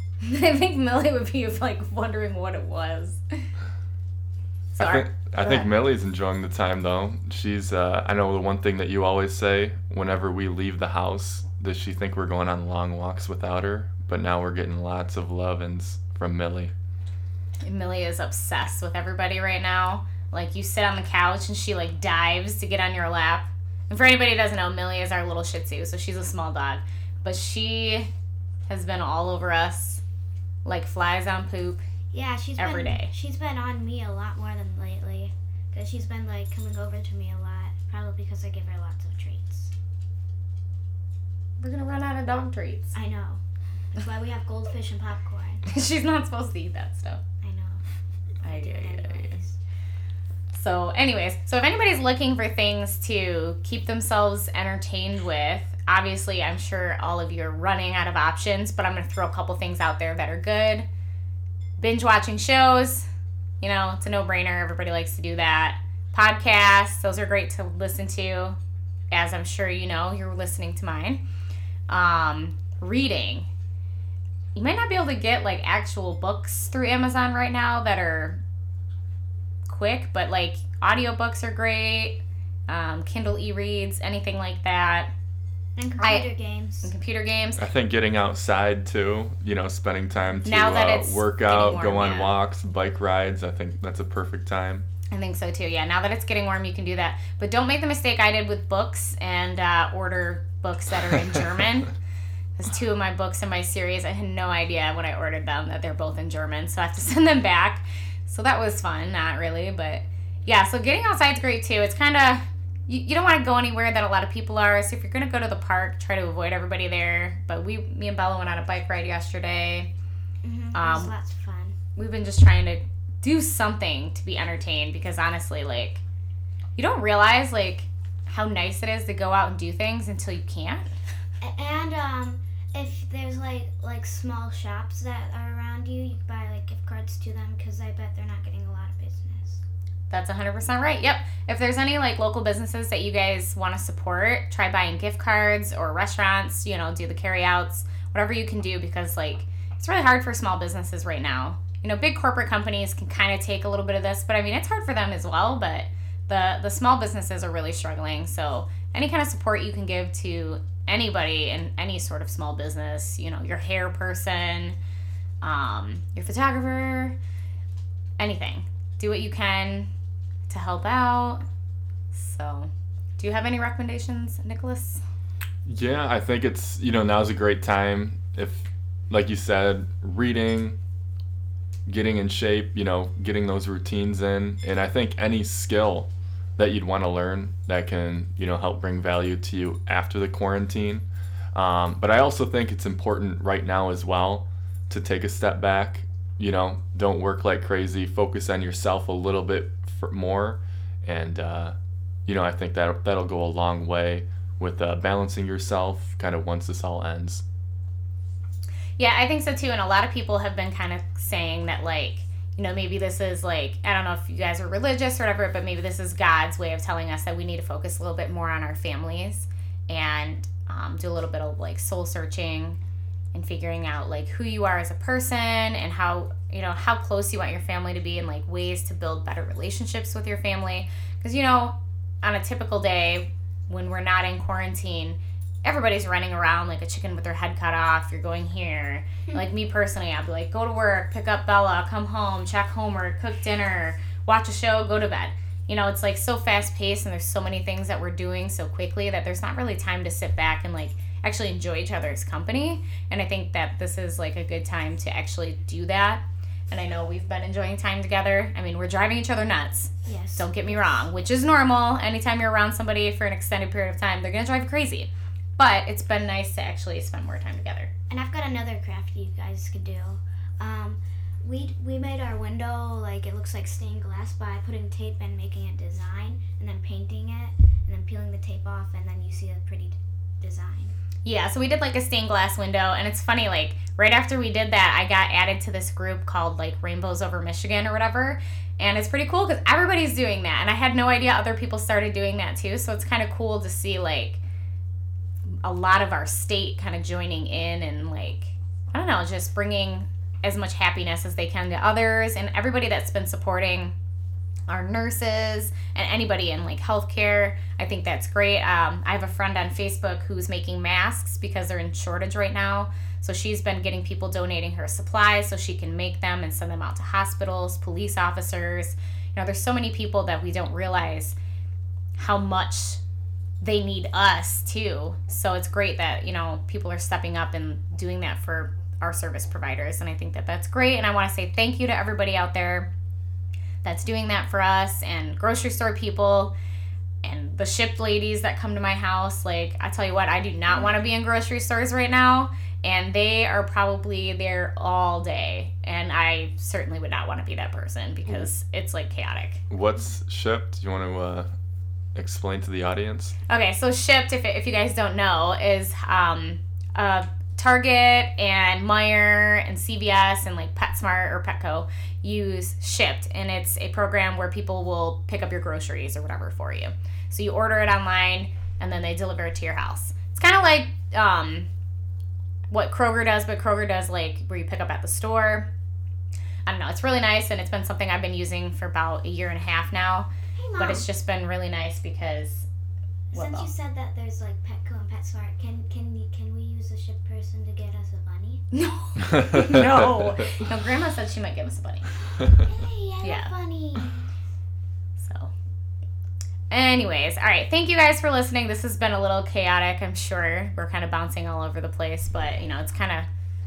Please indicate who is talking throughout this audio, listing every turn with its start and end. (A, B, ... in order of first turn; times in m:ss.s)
0:00.2-0:03.2 A
0:04.7-0:05.7 A
0:04.8-0:16.7 B
0:17.6-0:28.1 A
0:28.7-0:30.0 A
0:30.6-0:31.8 A
0:32.1-0:39.7 C
0:32.6-0:33.1 A
0:41.6-0:43.0 A
0:42.9-0:45.6 C
0:45.7-0:47.2 A
0:47.4-0:47.8 C
0:48.4-0:49.6 C
0:48.4-0:49.4 A
0:50.5-1:00.9 A
1:01.8-1:03.1 A
1:03.6-1:08.6 A
1:09.1-1:11.2 A
1:11.9-1:13.5 A
1:14.5-1:18.4 A
1:19.6-1:25.1 A
1:25.8-1:26.9 C
1:26.0-1:26.3 A
1:26.8-1:27.7 A
1:27.6-1:34.8 B
1:30.4-1:32.4 A
1:35.1-1:41.9 A
1:42.6-1:59.9 A
2:00.4-2:01.7 C
2:00.7-2:01.1 A
2:02.0-2:06.0 A
2:06.8-2:10.8 A
2:11.4-2:19.6 C
2:20.1-2:44.8 A
2:45.4-2:47.2 A
2:48.2-2:49.9 A
2:50.5-2:51.4 A
2:52.1-2:55.0 A
2:55.6-3:00.8 B
3:01.9-3:21.7 B
3:22.3-3:27.4 B
3:29.0-3:42.8 A
3:43.3-4:27.9 A
4:20.0-4:21.0 C
4:28.1-4:40.9 C
4:41.2-4:54.4 A
4:55.6-5:04.0 A
5:04.7-5:21.4 A
5:22.2-5:23.0 A
5:23.6-5:32.9 A
5:33.8-5:36.5 A
5:37.2-5:49.6 A
5:40.7-5:41.0 C
5:49.7-5:51.5 B
5:52.1-5:53.3 B
5:53.5-6:11.7 A
6:12.7-6:15.7 A
6:16.6-6:22.7 A
6:20.6-6:21.0 C
6:23.3-6:28.6 C
6:23.3-6:23.7 A
6:28.7-6:32.1 A
6:32.5-6:34.2 C
6:33.2-6:33.5 A
6:35.2-6:35.5 A
6:36.7-6:43.3 A